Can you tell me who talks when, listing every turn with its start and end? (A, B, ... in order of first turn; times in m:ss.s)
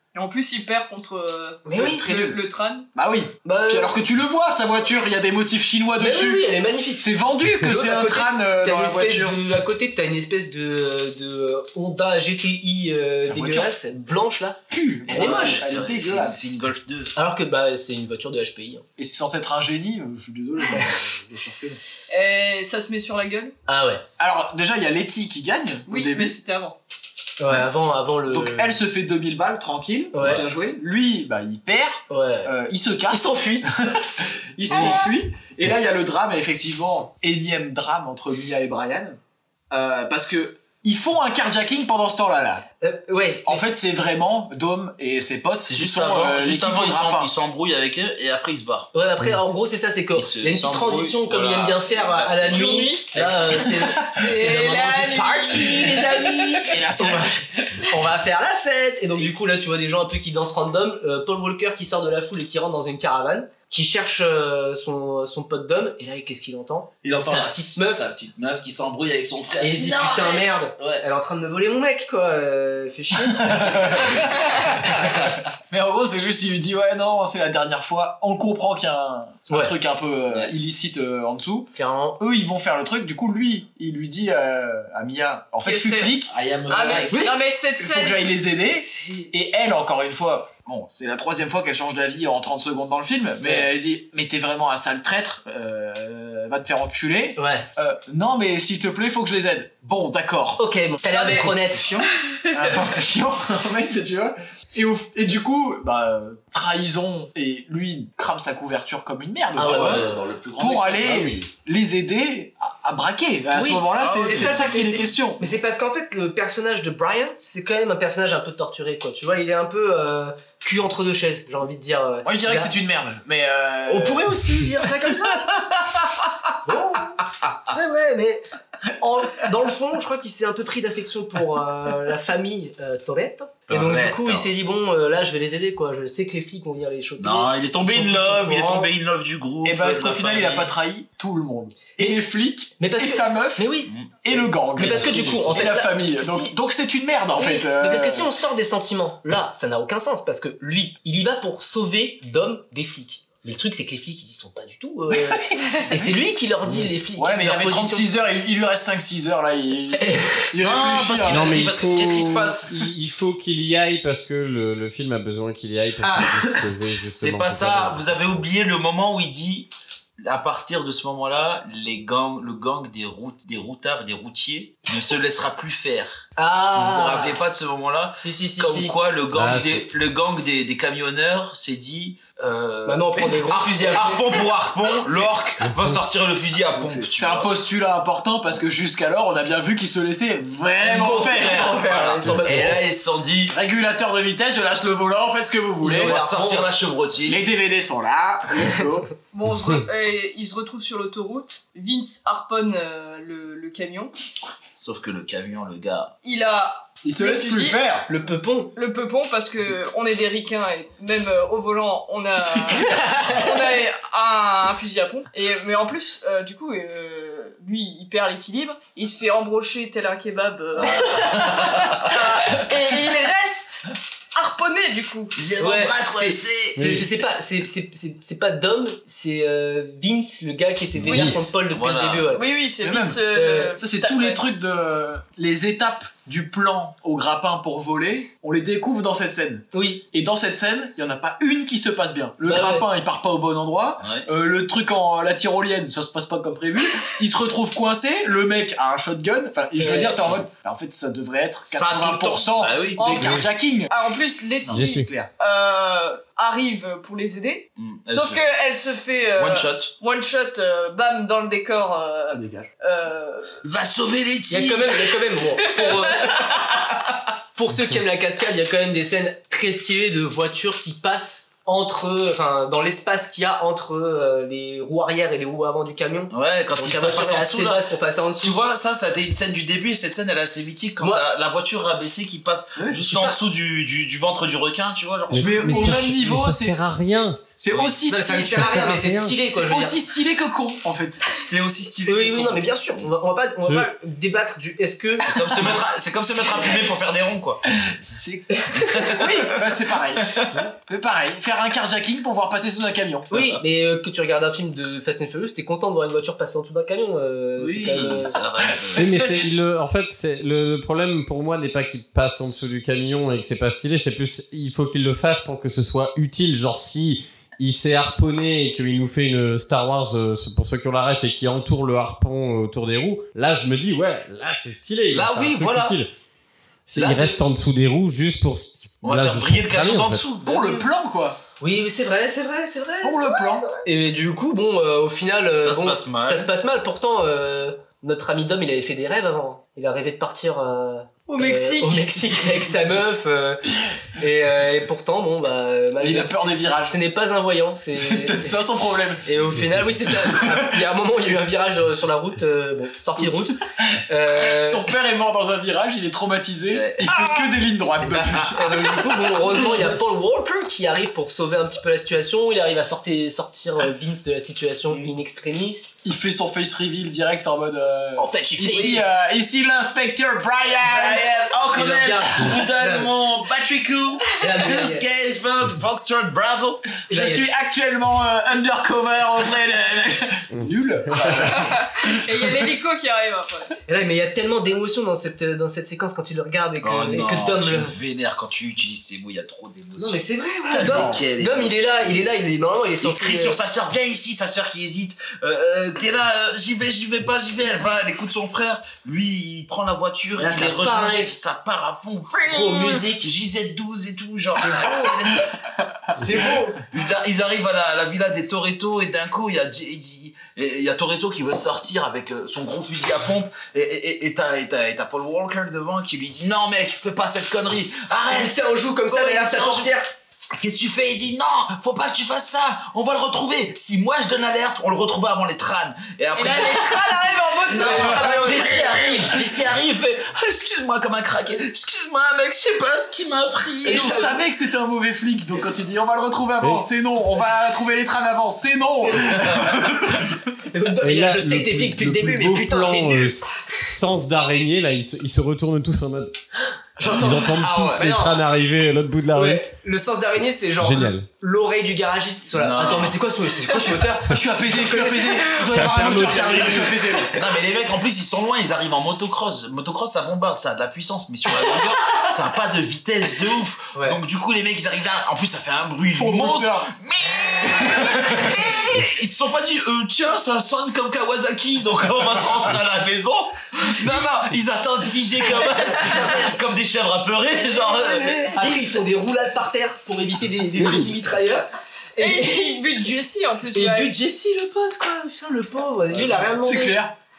0:00.1-0:02.9 A
0:01.6-0:02.0 B
0:01.7-0:02.4 C
0:02.9-0:09.4 C
0:03.4-0:04.0 B
0:06.0-0:15.6 B
0:13.2-0:13.7 C
0:14.7-0:16.4 C
0:15.1-0:17.1 D
0:17.1-0:18.8 B
0:19.0-0:21.8 C
0:22.1-0:23.5 A
0:23.7-0:24.0 B
0:24.2-0:26.4 C
0:25.9-0:26.8 A
0:27.4-0:28.8 B
0:28.3-0:39.2 C
0:30.1-0:30.5 B
0:32.1-0:32.5 B
0:33.1-0:33.7 B
0:34.7-0:35.0 B
0:39.7-0:42.6 C
0:42.8-0:43.6 B
0:43.4-0:47.3 C
0:45.6-0:48.9 D
0:48.9-0:57.2 B
0:50.1-0:53.6 D
0:52.4-0:53.2 A
0:53.6-0:54.2 C
0:54.1-0:56.0 A
0:55.7-0:56.0 C
0:56.6-0:57.8 C
0:57.8-1:08.0 B
1:07.0-1:11.0 D
1:09.6-1:14.1 B
1:13.3-1:26.3 C
1:19.5-1:19.7 B
1:21.7-1:22.2 B
1:25.6-1:28.3 A
1:26.3-1:27.3 D
1:27.8-1:40.6 C
1:28.8-1:29.3 B
1:33.4-1:33.7 B
1:37.4-1:37.7 B
1:40.6-1:42.1 B
1:41.1-1:42.5 A
1:41.9-1:50.0 C
1:49.6-1:50.3 B
1:49.6-1:51.3 D
1:50.6-1:55.5 C
1:51.0-1:51.4 E
1:53.5-2:02.7 B
1:53.9-1:55.2 D
2:02.2-2:04.8 C
2:03.9-2:05.4 B
2:05.2-2:06.3 D
2:06.6-2:08.4 B
2:08.9-2:18.9 B
2:13.7-2:14.5 D
2:17.2-2:20.7 D
2:19.6-2:28.3 C
2:22.8-2:26.5 B
2:24.8-2:25.5 E
2:27.4-2:38.1 B
2:37.2-2:41.7 C
2:40.0-2:40.3 B
2:40.6-2:42.7 D
2:41.2-2:48.2 E
2:47.2-3:07.5 D
2:56.4-2:57.4 B
2:58.2-2:58.9 B
2:59.3-2:59.8 E
3:02.8-3:04.3 B
3:05.6-3:06.0 E
3:06.8-3:11.7 C
3:10.8-3:13.6 D
3:11.3-3:12.8 B
3:13.5-3:16.2 C
3:15.8-3:16.7 B
3:15.8-3:17.4 D
3:17.2-3:19.1 C
3:19.3-3:24.1 A
3:24.8-3:26.1 D
3:26.2-3:27.8 A
3:27.0-3:28.1 C
3:28.1-3:28.7 B
3:28.7-3:45.4 A
3:32.4-3:32.8 C
3:32.9-3:33.4 B
3:40.8-3:42.2 D
3:45.4-3:46.8 D
3:45.6-3:52.5 B
3:46.8-3:47.1 E
3:51.0-3:51.4 E
3:51.0-3:51.4 A
3:51.7-3:52.3 D
3:52.3-3:54.4 A
3:52.8-3:53.2 C
3:53.3-3:53.8 B
3:53.8-4:13.9 C
3:59.7-4:00.0 B
4:02.4-4:02.8 B
4:04.0-4:04.3 D
4:09.8-4:10.3 B
4:11.7-4:13.4 D
4:13.0-4:23.6 A
4:14.7-4:15.1 E
4:14.8-4:15.3 C
4:17.8-4:18.5 D
4:19.3-4:19.9 D
4:22.3-4:22.7 C
4:23.6-4:25.0 D
4:24.5-4:26.6 B
4:25.6-4:26.6 A
4:27.6-4:38.6 B
4:36.3-4:37.8 D
4:38.4-4:46.2 D
4:42.8-4:43.1 C
4:43.0-4:43.4 B
4:45.3-4:47.4 E
4:45.4-4:46.8 C
4:47.6-4:51.2 C
4:47.7-4:48.0 D
4:48.1-4:50.0 B
4:48.5-4:49.4 E
4:51.4-4:52.7 D
4:52.0-4:55.3 B
4:55.2-4:57.6 D
4:57.8-5:03.3 C
4:58.7-5:00.5 D
4:59.1-4:59.4 B
5:03.3-5:08.4 B
5:07.6-5:09.3 D
5:09.0-5:26.1 E
5:25.1-5:26.0 D
5:26.9-5:30.2 E
5:26.9-5:27.4 D
5:29.0-5:30.9 D
5:30.4-5:31.4 C
5:31.6-5:48.6 B
5:33.0-5:33.7 C
5:35.5-5:36.5 D
5:41.3-5:42.1 A
5:46.0-5:47.0 C
5:47.9-5:49.4 C
5:49.2-5:54.9 B
5:50.0-5:50.8 C
5:53.2-5:58.9 C
5:56.7-5:59.8 D
5:58.5-6:05.9 B
6:04.9-6:05.1 D
6:06.0-6:11.2 C
6:08.2-6:09.0 B
6:08.5-6:08.9 D
6:10.8-6:16.8 D
6:11.7-6:13.1 B
6:14.4-6:15.0 B
6:17.1-6:17.5 B
6:17.1-6:22.2 C
6:21.5-6:23.8 A
6:23.9-6:27.9 B
6:26.8-6:32.3 D
6:30.0-6:33.6 B
6:30.7-6:31.2 C
6:33.0-6:45.5 D
6:40.4-6:41.3 B
6:42.5-6:43.3 B
6:46.2-6:46.8 B
6:46.9-6:59.9 D
6:58.3-7:00.1 B
7:00.6-7:07.1 D
7:06.4-7:09.2 A
7:07.7-7:14.4 D
7:07.7-7:09.0 B
7:07.9-7:08.2 C
7:13.8-7:14.3 B
7:13.8-7:20.3 C
7:18.9-7:19.5 B
7:20.7-7:23.4 B
7:21.0-7:26.3 E
7:27.0-7:28.4 B
7:27.0-7:27.8 C
7:27.0-7:29.7 E
7:29.3-7:37.3 B
7:30.8-7:31.3 E
7:32.5-7:33.2 D
7:33.6-7:37.4 C
7:35.7-7:36.9 E
7:37.2-7:58.6 D
7:43.9-7:44.2 B
7:46.1-7:46.9 C
7:47.9-7:48.5 C
7:57.7-8:02.6 B
7:58.6-7:58.9 C
8:02.2-8:04.1 A
8:03.7-8:07.0 B
8:06.1-8:07.2 C